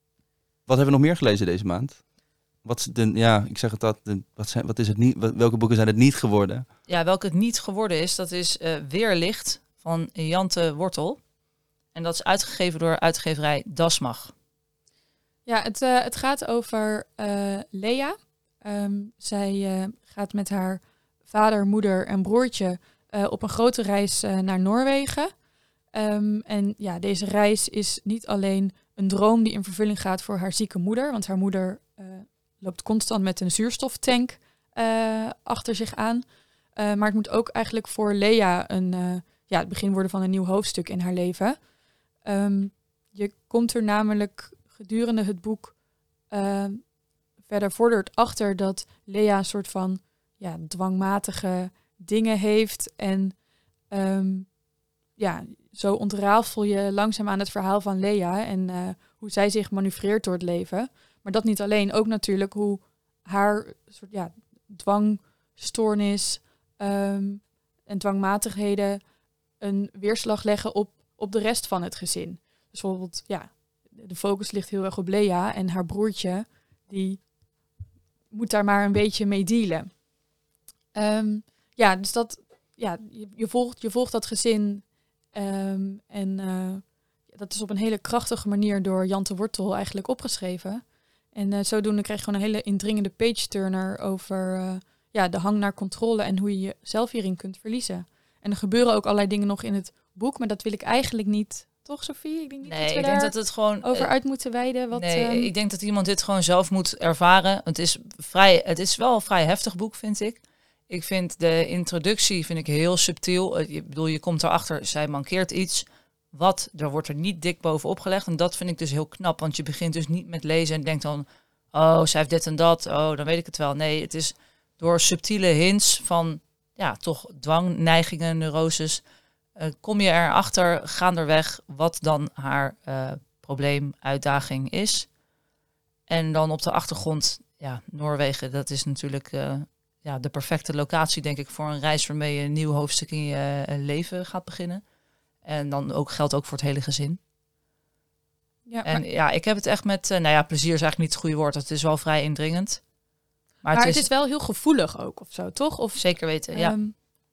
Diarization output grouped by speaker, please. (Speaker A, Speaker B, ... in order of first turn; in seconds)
Speaker A: 0.7-2.0, 2.6-6.7
Speaker B: 6.9-11.2, 11.9-14.3, 102.6-104.1, 104.9-129.0, 129.6-135.1, 136.1-144.8, 145.4-147.2, 148.8-152.8, 153.6-154.1, 156.0-156.7
Speaker C: 15.4-25.3, 25.9-41.6, 42.2-45.8, 46.3-53.4, 53.9-54.6, 55.1-69.0, 69.6-77.3, 78.3-79.9, 80.9-105.5, 148.7-149.0, 153.7-157.0